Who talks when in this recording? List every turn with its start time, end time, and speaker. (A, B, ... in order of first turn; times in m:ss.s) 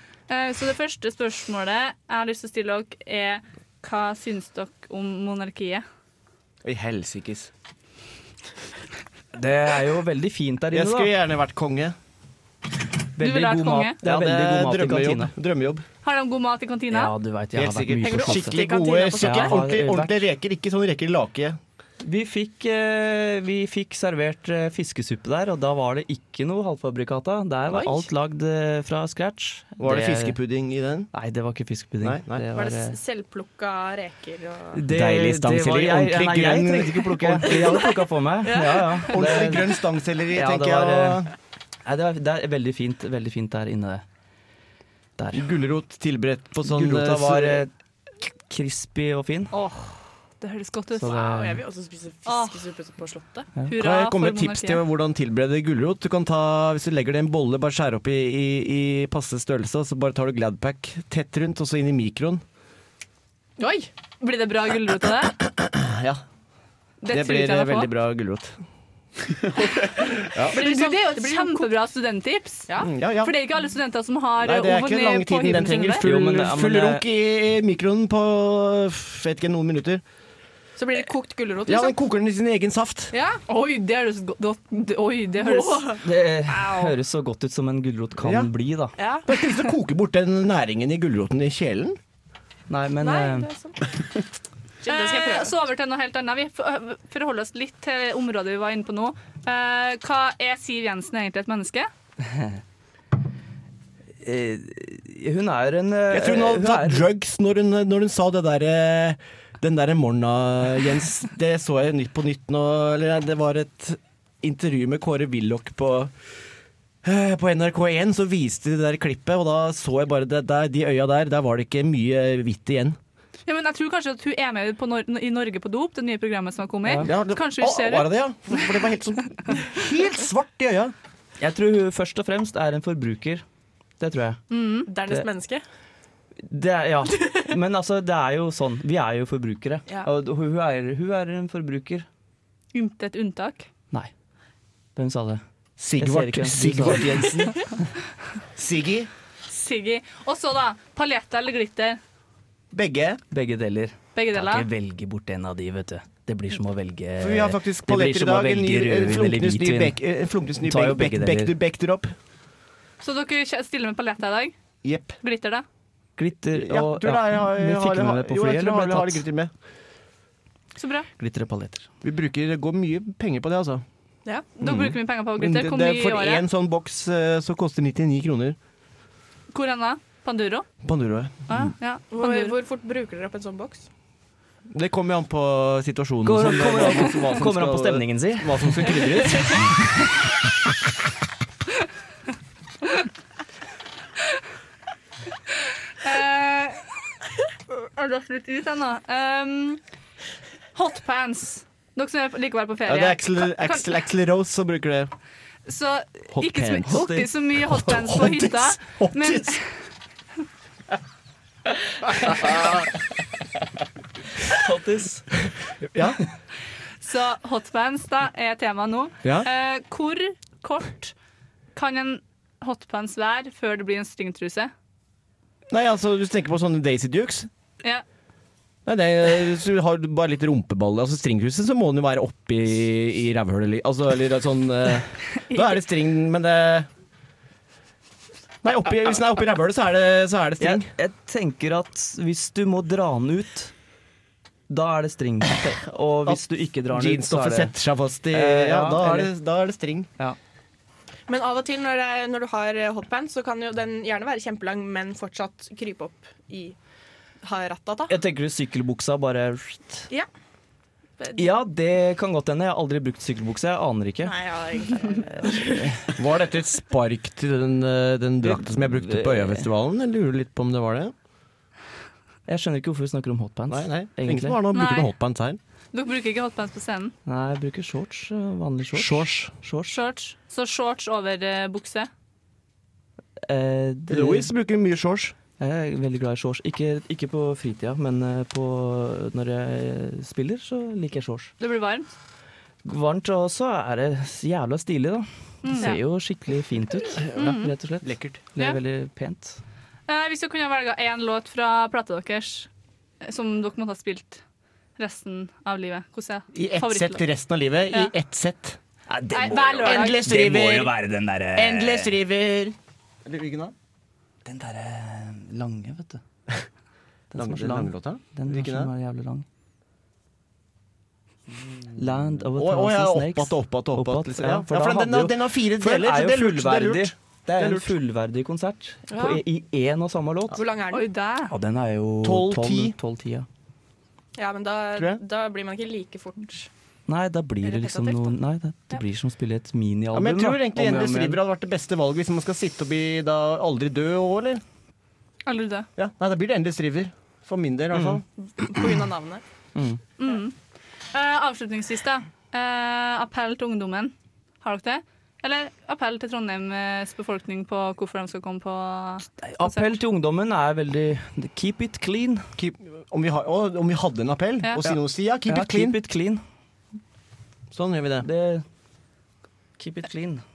0:00.3-0:05.8 A
0:06.6-0:07.5 B
0:09.3-0:11.1 C
0:10.7-0:11.9 B
0:13.2-0:15.3 C
0:13.2-0:14.0 A
0:14.0-0:15.8 B
0:16.0-0:17.1 A
0:16.9-0:18.6 C
0:17.5-0:21.6 B
0:18.0-0:19.5 D
0:19.2-0:20.2 C
0:22.0-0:30.4 C
0:27.7-0:28.1 D
0:29.8-0:31.1 B
0:31.1-0:33.0 C
0:32.0-0:32.4 B
0:32.5-0:34.8 D
0:34.8-0:41.2 C
0:34.9-0:38.0 B
0:37.5-0:37.8 D
0:38.4-0:39.2 D
0:39.0-0:41.3 B
0:41.8-0:44.0 C
0:45.2-0:45.5 C
0:45.3-0:47.7 B
0:46.6-0:49.5 C
0:49.5-0:51.2 A
0:51.0-0:51.6 C
0:51.0-0:53.5 D
0:52.3-0:52.6 A
0:53.7-0:54.8 A
0:53.8-1:02.4 B
1:03.6-1:03.9 D
1:04.2-1:05.4 A
1:05.6-1:06.2 B
1:07.0-1:07.9 A
1:07.1-1:08.6 B
1:10.4-1:11.8 D
1:10.5-1:12.7 A
1:12.8-1:13.4 B
1:13.2-1:16.1 A
1:14.4-1:20.0 B
1:16.0-1:17.1 C
1:20.8-1:21.9 D
1:21.6-1:23.1 B
1:23.1-1:23.4 D
1:23.5-1:26.0 A
1:25.4-1:26.0 D
1:26.0-1:28.9 C
1:26.6-1:26.8 A
1:28.2-1:28.5 B
1:29.0-1:29.3 D
1:29.3-1:32.0 B
1:32.7-1:33.5 C
1:33.0-1:34.0 D
1:34.8-1:35.5 D
1:34.9-1:41.9 A
1:42.2-1:42.6 C
1:44.2-1:47.1 C
1:46.1-1:56.1 B
1:57.0-2:03.0 B
2:03.5-2:08.6 A
2:06.9-2:07.2 C
2:07.0-2:10.9 B
2:11.4-2:13.4 C
2:14.0-2:14.4 C
2:14.5-2:14.9 A
2:14.9-2:15.6 D
2:16.4-2:22.1 C
2:17.2-2:17.5 D
2:22.8-2:23.6 A
2:25.0-2:25.4 C
2:25.8-2:27.6 B
2:26.0-2:27.7 C
2:28.6-2:29.1 B
2:29.5-2:32.0 A
2:32.7-2:33.2 B
2:33.3-2:40.0 C
2:34.1-2:34.7 A
2:37.2-2:42.1 B
2:40.6-2:41.6 C
2:43.0-2:44.6 A
2:44.8-2:45.2 B
2:45.2-2:45.6 A
2:46.2-2:49.3 C
2:46.5-2:49.5 B
2:50.8-2:51.1 A
2:51.2-2:51.9 C
2:52.0-2:53.8 B
2:54.6-2:56.4 A
2:54.6-2:58.6 B
2:59.5-3:00.7 A
3:00.8-3:01.3 B
3:01.5-3:02.6 A
3:02.1-3:03.9 D
3:04.7-3:09.7 B
3:06.2-3:10.0 C
3:16.0-3:16.8 A
3:17.8-3:19.8 A
3:20.8-3:23.9 A
3:22.8-3:25.1 B
3:25.7-3:29.7 A
3:26.3-3:29.6 B
3:32.3-3:32.6 C
3:34.5-3:35.3 C
3:35.8-3:36.2 B
3:37.0-3:41.1 A
3:39.2-3:39.5 B
3:41.8-3:44.7 A
3:45.7-3:47.5 B
3:48.8-3:56.9 B
3:58.6-4:00.9 B
4:00.6-4:03.7 C
4:04.7-4:07.8 C
4:06.2-4:10.1 B
4:08.3-4:09.3 C
4:11.3-4:16.8 D
4:17.4-4:18.1 D
4:18.1-4:20.1 C
4:21.2-4:21.4 D
4:21.4-4:24.4 C
4:24.2-4:25.9 D
4:25.3-4:26.1 C
4:26.2-4:31.1 B
4:28.4-4:29.7 C
4:32.5-4:34.6 C
4:33.7-4:35.6 B
4:34.7-4:35.1 A
4:35.9-4:37.1 A
4:37.2-4:40.0 C
4:38.9-4:39.6 B
4:39.9-4:42.1 A
4:43.5-4:44.5 C
4:44.1-4:45.4 B
4:45.6-4:51.5 C
4:51.6-4:52.1 A
4:52.8-4:59.6 C
4:55.6-4:56.0 A
4:57.4-4:57.7 A
4:58.0-4:58.5 B
5:00.1-5:02.7 A
5:03.2-5:04.4 A
5:05.0-5:07.2 A
5:06.5-5:11.0 B
5:09.1-5:12.2 C
5:09.3-5:10.3 A
5:11.5-5:13.7 B
5:14.5-5:16.2 C
5:17.3-5:19.4 C
5:17.4-5:18.9 B
5:21.9-5:30.6 C
5:22.5-5:28.0 B
5:29.1-5:29.4 D
5:30.5-5:31.1 D
5:30.9-5:31.5 A
5:31.5-5:33.5 C
5:32.2-5:33.0 B
5:34.4-5:36.7 D
5:35.0-5:35.2 B
5:37.1-5:41.4 C
5:37.6-5:38.4 D
5:40.1-5:44.6 B
5:45.5-5:45.9 A
5:46.0-5:48.2 B
5:47.9-5:48.2 C
5:48.4-5:49.4 D
5:49.8-5:50.0 C
5:50.2-5:50.5 A
5:51.1-6:00.0 A
5:59.4-6:02.5 C
6:02.6-6:06.0 B
6:04.8-6:06.4 C
6:07.7-6:08.3 B
6:08.2-6:08.6 C
6:09.8-6:10.4 C